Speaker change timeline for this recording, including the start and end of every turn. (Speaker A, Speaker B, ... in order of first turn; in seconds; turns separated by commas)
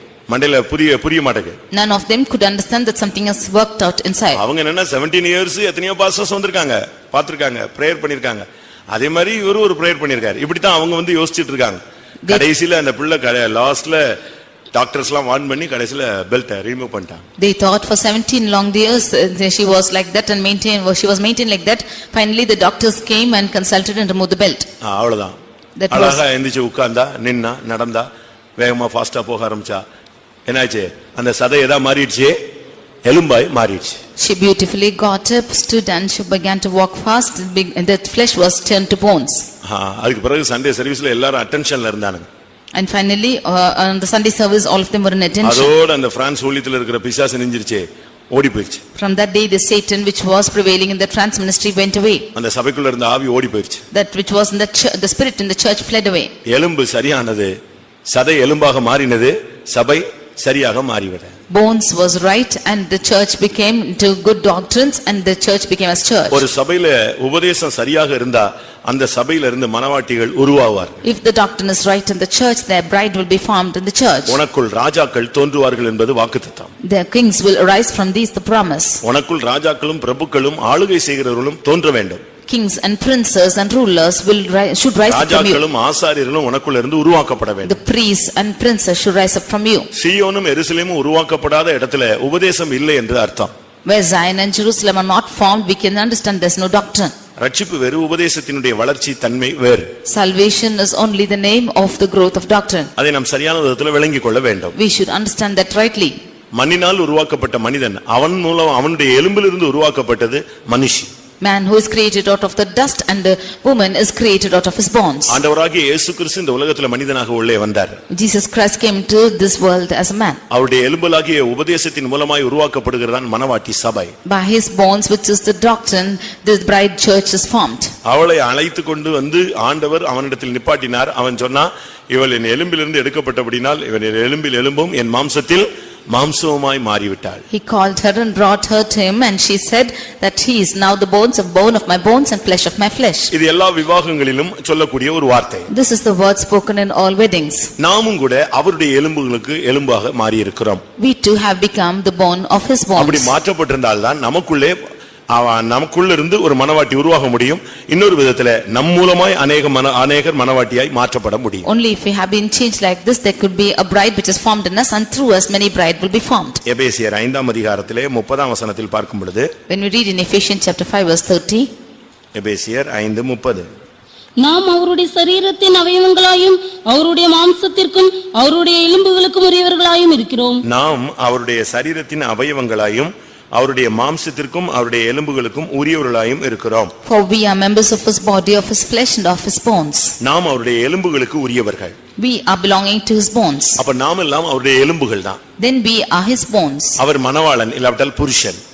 Speaker A: 0.3-1.6, Speaker B: 1.7-4.4, Speaker A: 4.3-14.2, Speaker A: 14.7-17.2, Speaker B: 17.4-24.7, Speaker A: 24.8-25.3, Speaker B: 25.8-26.2, Speaker A: 25.9-29.8, Speaker A: 30.5-32.4, Speaker A: 33.0-34.0, Speaker B: 34.2-39.5, Speaker A: 39.6-42.2, Speaker B: 42.7-45.7, Speaker A: 45.4-48.8, Speaker B: 49.0-52.3, Speaker A: 52.3-53.8, Speaker B: 53.9-56.3, Speaker A: 56.5-57.5, Speaker A: 58.1-61.3, Speaker B: 61.5-66.4, Speaker A: 66.3-71.0, Speaker B: 71.0-74.4, Speaker A: 74.3-76.7, Speaker B: 76.8-79.0, Speaker A: 79.0-82.2, Speaker B: 82.5-85.6, Speaker A: 85.1-87.8, Speaker B: 87.6-89.9, Speaker A: 89.9-93.5, Speaker B: 93.8-97.1, Speaker A: 97.4-99.9, Speaker B: 100.0-102.9, Speaker A: 103.0-104.7, Speaker B: 104.8-106.2, Speaker A: 106.6-111.1, Speaker B: 111.4-115.4, Speaker A: 115.3-118.0, Speaker B: 118.1-120.4, Speaker A: 120.5-124.1, Speaker B: 124.2-127.9, Speaker A: 128.0-137.4, Speaker B: 137.5-143.3, Speaker A: 143.3-145.7, Speaker B: 145.7-147.7, Speaker A: 147.8-150.8, Speaker B: 151.0-153.3, Speaker A: 152.9-154.8, Speaker A: 155.3-161.7, Speaker B: 161.7-166.6, Speaker A: 166.7-169.5, Speaker B: 169.7-171.7, Speaker A: 172.3-173.7, Speaker C: 174.4-180.6, Speaker A: 180.6-186.9, Speaker B: 187.0-190.2, Speaker A: 190.2-191.9, Speaker B: 192.2-193.8, Speaker A: 193.8-195.4, Speaker B: 195.6-197.0, Speaker A: 197.0-198.6